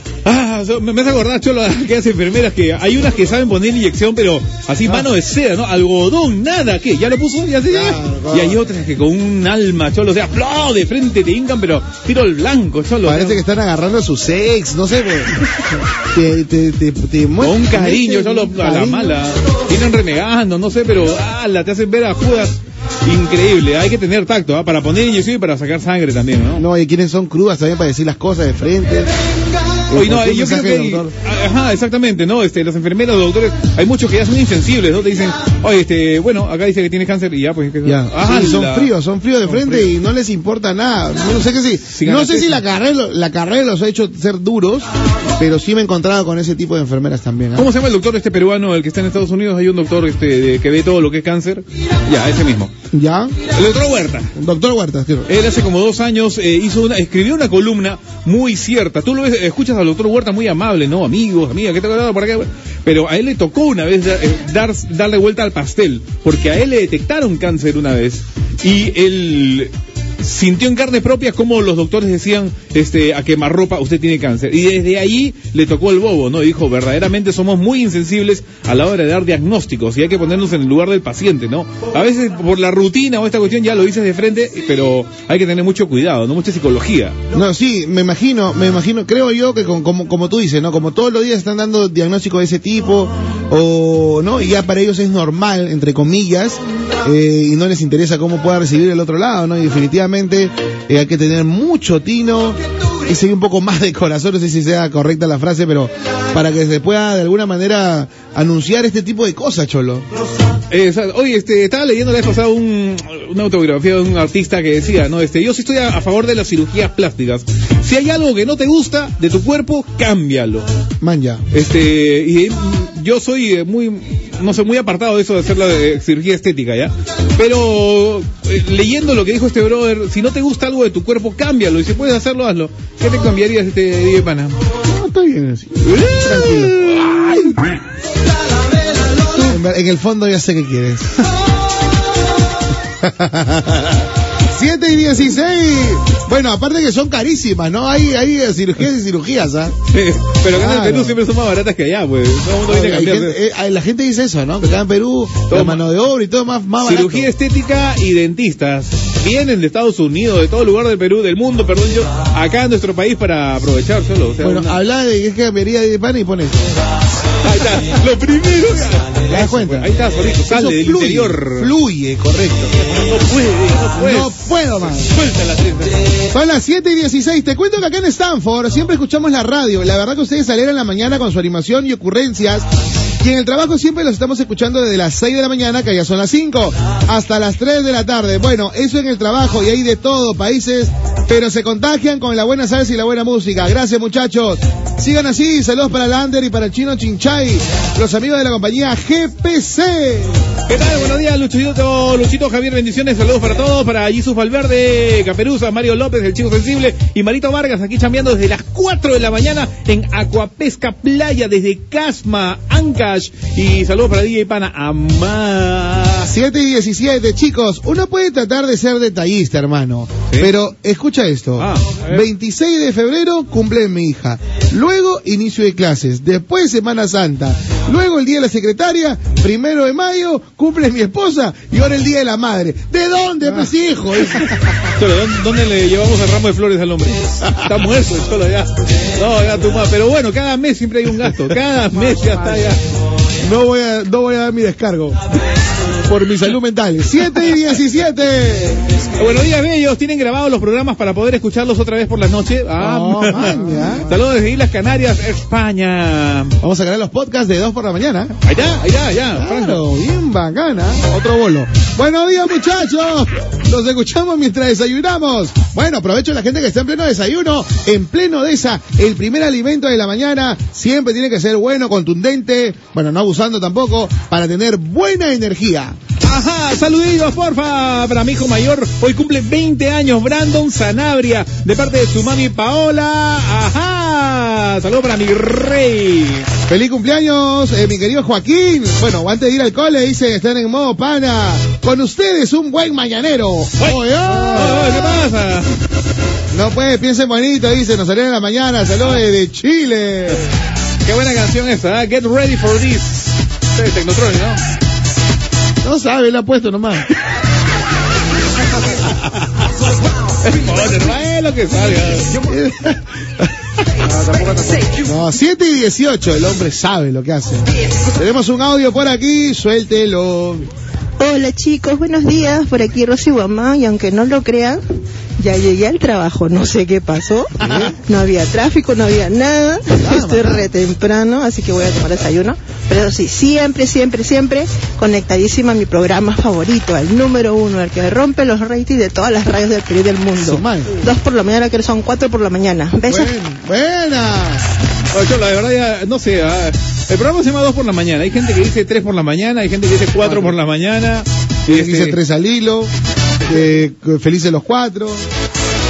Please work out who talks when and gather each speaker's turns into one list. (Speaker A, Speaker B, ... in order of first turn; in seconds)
Speaker A: 0.2-13.4, 17.4-26.6, 29.9-39.9, 41.9-42.6, 47.6-52.7, 53.5-54.3, 55.3-87.2, 110.7-120.6, 121.5-134.6, 135.9-137.4, 149.9-153.4, 155.5-155.9, 156.8-164.8, 167.4-171.7, 172.9-175.9, 200.7-216.3, 221.6-222.3, 234.4-242.8, 249.2-256.6, 258.4-259.8, 276.2-286.5, 293.8-295.7, 301.1-304.6, 310.4-312.4, 345.1-352.2
Speaker B: 7.7-8.7, 13.0-15.4, 16.1-19.2, 26.6-29.1, 29.9-31.1, 37.9-44.9, 45.4-47.7, 52.9-53.4, 54.3-55.3, 87.3-110.1, 121.0-121.4, 134.9-137.6, 139.2-141.3, 143.0-149.8, 150.5-151.2, 152.6-157.3, 164.4-166.7, 169.3-169.9, 170.5-172.8, 173.9-175.1, 176.3-182.7, 183.2-200.4, 216.2-234.6, 237.4-237.8, 243.4-245.2, 246.1-248.9, 252.8-254.2, 256.6-258.4, 259.3-276.0, 286.7-295.2, 296.5-300.5, 305.8-307.1, 312.4-313.5, 315.0-320.7, 327.6-327.9, 329.9-330.7, 340.4-341.0, 343.1-344.7, 350.2-350.5, 351.7-352.9, 353.5-355.3
Speaker C: 321.2-324.8, 325.4-343.3